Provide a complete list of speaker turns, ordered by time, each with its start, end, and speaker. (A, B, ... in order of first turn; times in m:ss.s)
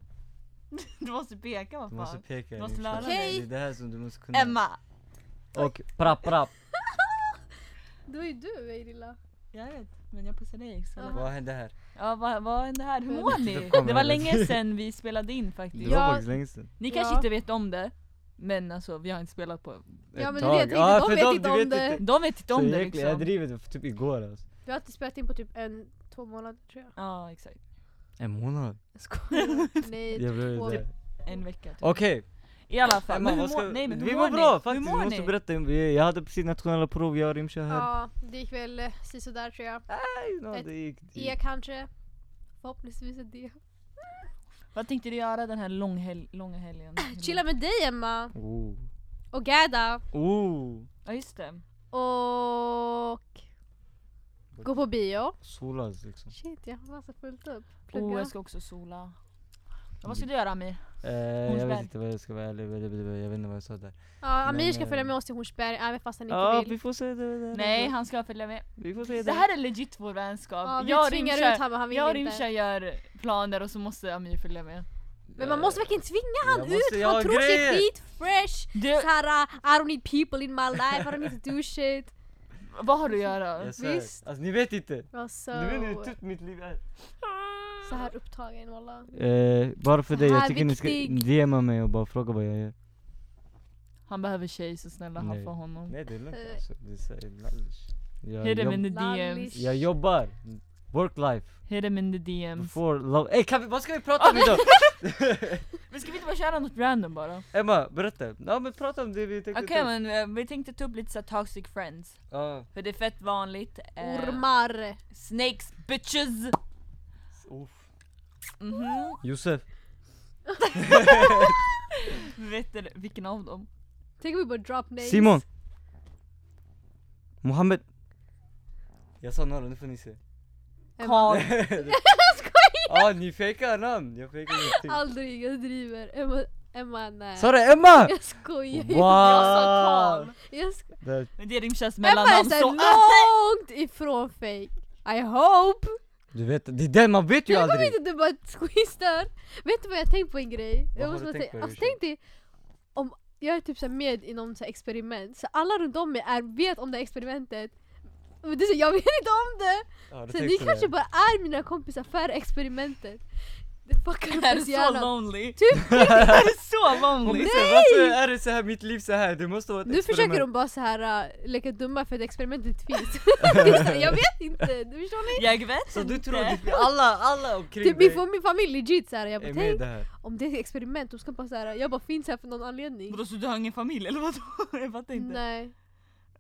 0:00.7-0:03.4 A
0:01.9-0:04.6 B
0:03.0-0:03.5 C
0:04.3-0:04.8 A
0:05.5-0:06.5 B
0:06.8-0:07.2 C
0:08.1-0:09.2 C
0:09.5-0:11.3 A
0:11.0-0:11.3 C
0:11.1-0:11.7 B
0:12.0-0:16.1 A
0:13.1-0:13.4 C
0:13.4-0:14.6 B
0:15.7-0:16.7 B
0:15.8-0:16.3 C
0:16.8-0:20.0 A
0:16.9-0:17.3 C
0:20.1-0:24.4 B
0:20.2-0:22.0 C
0:22.0-0:23.3 A
0:24.6-0:26.9 C
0:27.0-0:27.6 A
0:28.2-0:28.8 B
0:29.0-0:30.8 C
0:29.3-0:29.9 A
0:30.2-0:30.9 B
0:30.7-0:32.1 A
0:31.8-0:32.3 B
0:32.7-0:35.3 A
0:33.0-0:37.9 B
0:37.7-0:39.9 C
0:39.9-0:41.4 B
0:40.5-0:41.9 C
0:42.6-0:43.6 C
0:44.7-0:47.4 A
0:47.0-0:48.3 C
0:48.3-0:48.9 B
0:49.3-0:50.0 C
0:50.1-0:50.9 B
0:51.0-0:51.6 A
0:51.9-0:53.4 C
0:54.5-0:54.8 B
0:54.6-0:55.4 C
0:55.4-0:56.3 B
0:56.3-0:58.3 C
0:57.9-0:59.2 A
1:00.0-1:00.8 A
1:01.0-1:05.1 B
1:01.4-1:01.9 A
1:04.2-1:06.8 C
1:06.3-1:07.9 B
1:07.5-1:14.9 A
1:08.8-1:09.5 B
1:10.6-1:12.5 C
1:15.3-1:17.9 B
1:15.4-1:22.1 C
1:18.7-1:19.1 A
1:22.7-1:23.8 A
1:23.1-1:24.2 C
1:23.6-1:26.8 B
1:25.1-1:26.1 C
1:27.2-1:28.1 A
1:27.8-1:29.1 C
1:29.1-1:32.7 B
1:30.1-1:31.3 C
1:34.1-1:36.0 A
1:35.2-1:38.9 B
1:36.3-1:36.6 C
1:38.4-1:39.6 A
1:38.8-1:39.8 C
1:39.5-1:41.6 B
1:41.7-1:42.8 A
1:42.6-1:45.6 B
1:44.2-1:45.0 A
1:45.9-1:47.4 A
1:47.5-1:49.9 B
1:49.5-1:54.5 A
1:52.3-1:52.7 B
1:54.0-1:55.0 C
1:55.1-1:56.6 A
1:57.4-1:57.9 B
1:58.6-1:59.2 A
1:59.2-1:59.6 B
2:00.5-2:01.6 C
2:00.8-2:01.6 B
2:02.3-2:03.7 A
2:04.2-2:05.4 C
2:05.0-2:05.4 B
2:07.4-2:07.8 B
2:09.2-2:10.2 B
2:11.0-2:13.1 C
2:11.0-2:11.5 A
2:11.3-2:12.0 B
2:12.9-2:15.0 B
2:14.5-2:19.7 C
2:17.4-2:18.2 B
2:18.7-2:20.3 B
2:19.0-2:20.4 A
2:20.4-2:20.9 C
2:21.0-2:21.3 B
2:21.4-2:23.3 A
2:22.0-2:26.0 C
2:26.3-2:28.0 B
2:27.5-2:32.2 C
2:31.0-2:32.0 B
2:33.0-2:37.7 C
2:38.4-2:43.2 C
2:40.1-2:40.9 B
2:43.8-2:46.4 C
2:44.3-2:47.6 A
2:46.0-2:46.4 B
2:47.2-2:50.5 B
2:47.3-2:48.2 C
2:49.9-2:55.5 C
2:55.3-2:56.7 A
2:55.9-2:58.2 B
2:56.6-2:56.9 C
2:57.8-3:03.2 C
2:59.4-3:00.1 B
3:03.1-3:05.4 A
3:05.2-3:05.7 C